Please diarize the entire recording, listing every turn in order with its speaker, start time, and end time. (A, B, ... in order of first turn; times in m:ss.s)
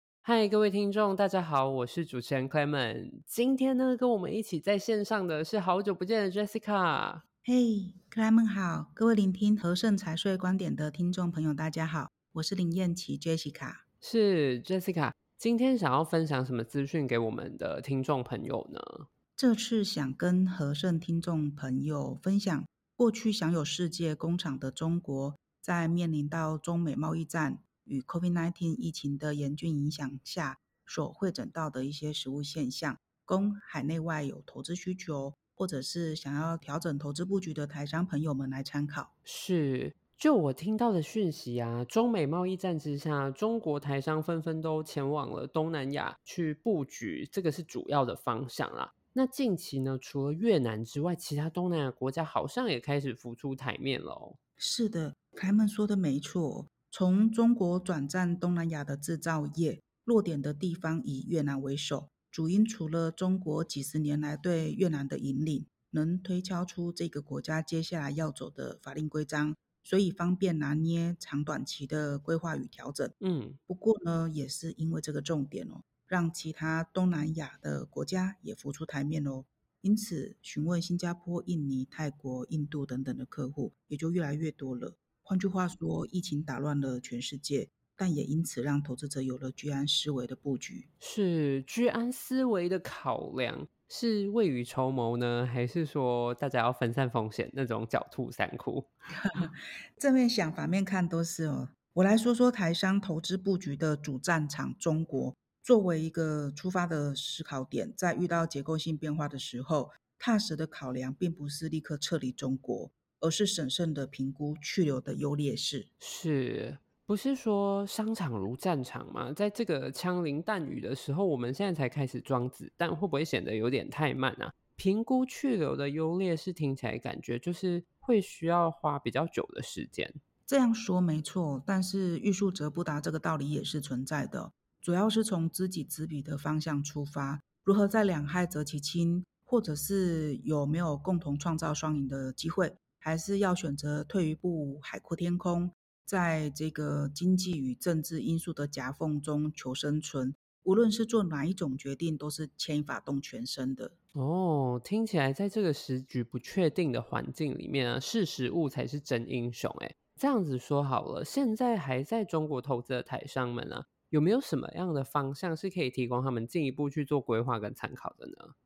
0:00.2-0:07.2 A
0:07.4-0:13.8 B
0:14.0-0:19.1 A
0:19.4-0:39.1 B
0:39.2-0:54.4 A
0:54.6-1:13.1 B
1:13.2-1:13.6 A
1:13.7-1:30.9 B
1:31.0-1:38.9 A
1:39.2-1:55.9 B
1:56.0-2:10.2 A
2:10.5-2:33.9 B
2:34.1-2:48.5 A